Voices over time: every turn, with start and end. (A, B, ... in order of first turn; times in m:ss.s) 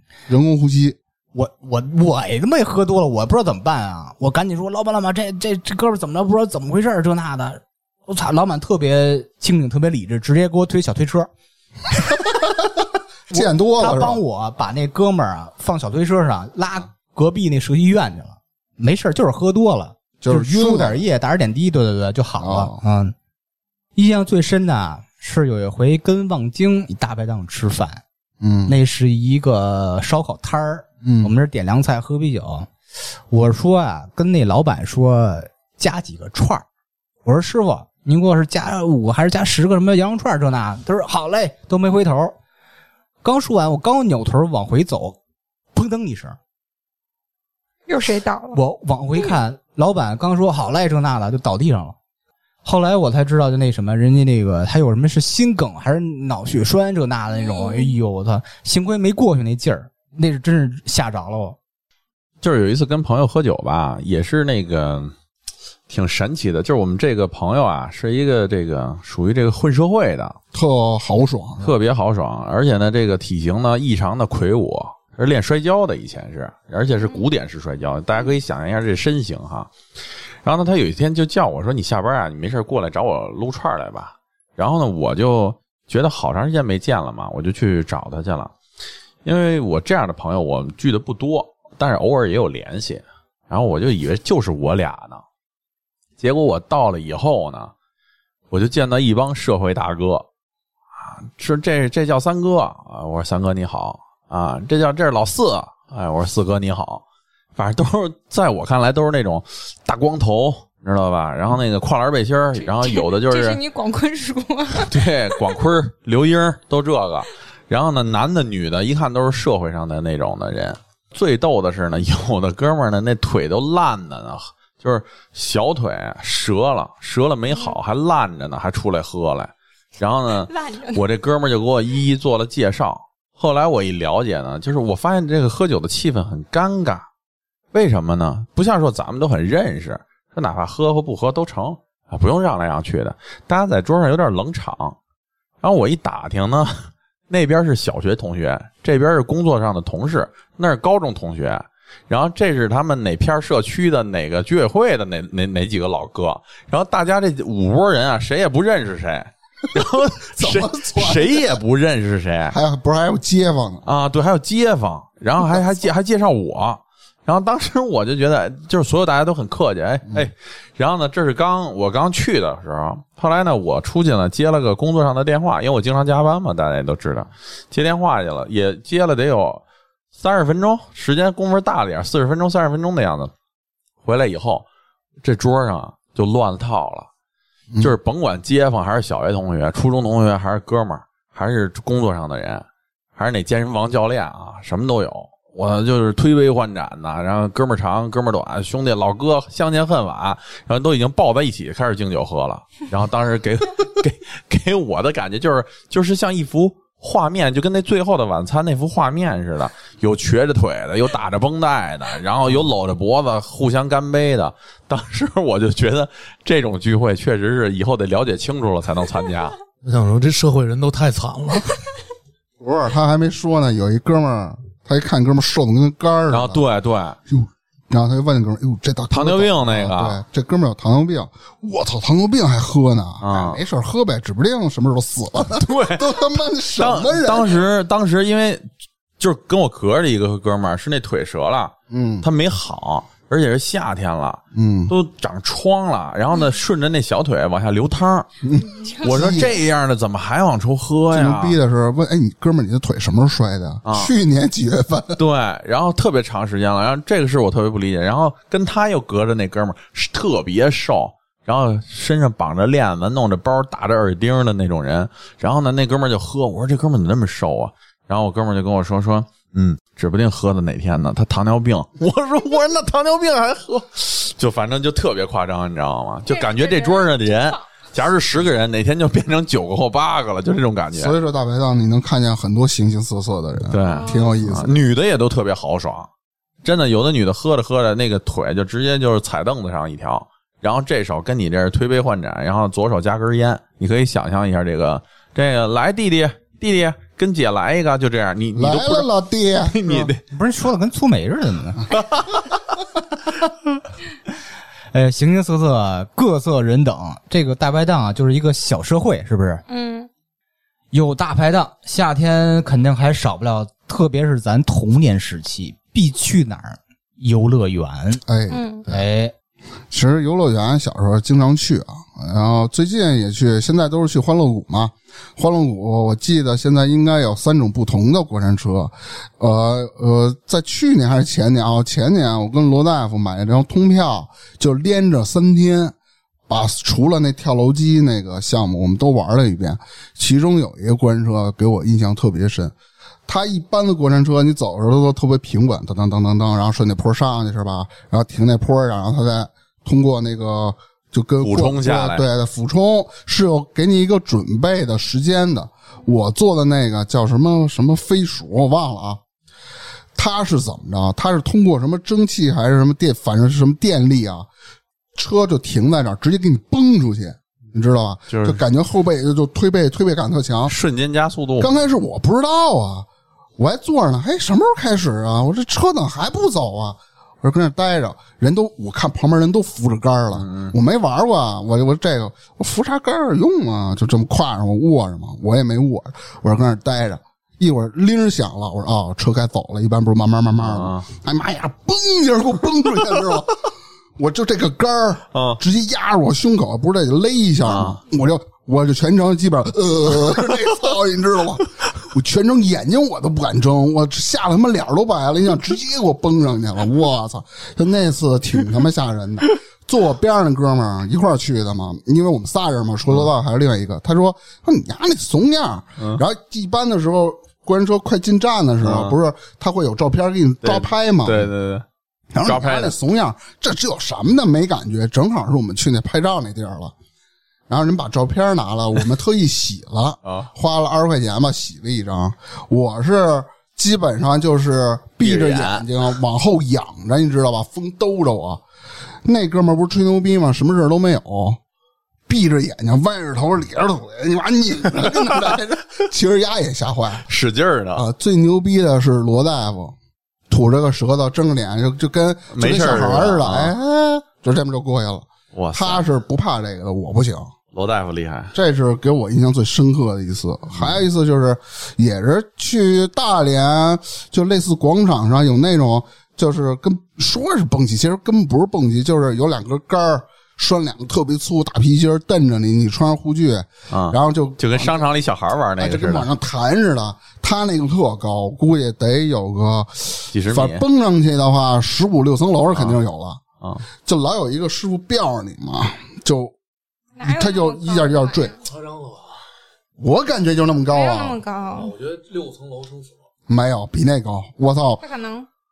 0:00.3-0:01.0 A
0:01.3-0:11.3 B
0:13.3-0:14.2 A
0:13.3-0:23.1 B
0:20.2-0:21.0 A
0:22.4-0:22.8 A
0:24.0-0:28.0 B
0:28.4-0:28.8 A
0:28.7-0:32.7 B
0:31.0-0:31.3 A
0:33.3-0:36.6 B
0:37.2-0:42.4 B
0:43.2-0:45.2 B
0:45.7-0:46.4 B
0:47.9-0:48.6 C
0:48.5-0:52.0 B
0:52.6-1:01.6 B
0:57.3-0:57.9 C
1:02.4-1:05.1 D
1:05.9-1:10.4 D
1:10.5-1:11.7 A
1:11.6-1:19.7 D
1:20.4-1:28.5 D
1:29.2-1:35.2 D
1:36.2-1:37.7 D
1:38.5-1:40.3 D
1:41.0-1:47.0 D
1:47.6-1:53.6 D
1:52.6-1:55.4 C
1:54.8-2:17.1 D
2:10.5-2:11.0 C
2:17.7-2:25.0 D
2:25.6-2:42.6 D
2:40.3-2:41.6 A
2:42.5-2:43.9 A
2:43.9-2:59.6 D
3:00.1-3:03.3 D
3:04.0-3:04.7 D
3:05.2-3:07.1 D
3:07.8-3:12.6 D
3:13.2-3:39.6 D
3:39.8-3:41.8 E
3:42.6-3:46.6 A
3:46.3-3:47.2 D
3:47.3-3:57.6 A
3:49.1-3:50.2 D
3:53.2-3:53.6 D
3:55.6-3:58.7 D
3:59.2-4:08.3 D
4:01.9-4:02.3 A
4:04.5-4:04.9 A
4:08.4-4:09.6 A
4:08.7-4:09.5 C
4:09.0-4:11.6 D
4:11.1-4:15.2 A
4:13.9-4:14.1 D
4:15.2-4:41.2 D
4:36.3-4:37.6 C
4:40.9-4:44.7 A
4:43.7-4:46.1 D
4:43.8-4:44.3 C
4:46.6-4:59.1 D
4:58.6-5:00.1 A
4:59.6-5:00.2 D
4:59.9-5:01.9 B
5:04.9-5:09.6 B
5:09.7-5:10.1 C
5:10.9-5:18.2 B
5:18.3-5:19.0 A
5:18.5-5:18.8 C
5:18.9-5:19.3 B
5:19.9-5:36.0 A
5:36.5-5:42.7 A
5:43.3-5:59.2 A
5:51.4-5:52.2 D
6:00.2-6:04.5 A
6:05.2-6:10.8 A
6:08.3-6:08.6 D
6:10.7-6:11.7 D
6:11.6-6:13.1 A
6:13.6-7:01.5 A
6:20.3-6:20.7 D
6:30.6-6:31.1 D
6:35.3-6:35.6 D
6:37.6-6:38.0 D
6:58.8-6:59.2 D
7:00.6-7:01.8 D
7:02.3-7:06.9 A
7:02.4-7:02.9 D
7:07.7-7:18.6 A
7:10.2-7:10.5 D
7:15.2-7:15.9 D
7:19.2-7:21.6 A
7:22.3-7:27.3 A
7:27.3-7:28.0 D
7:27.9-7:30.0 A
7:30.5-7:37.5 A
7:32.5-7:33.7 D
7:35.5-7:36.0 D
7:37.7-7:38.5 D
7:38.5-7:55.1 A
7:53.9-7:56.3 D
7:55.8-8:03.4 A
8:00.3-8:00.8 D
8:02.7-8:03.0 D
8:03.6-8:03.9 D
8:04.0-8:06.5 A
8:07.2-8:08.6 C
8:07.2-8:08.6 A
8:08.7-8:09.3 E
8:10.0-8:11.4 A
8:10.9-8:12.0 C
8:11.8-8:13.2 E
8:13.5-8:15.0 A
8:15.0-8:15.5 C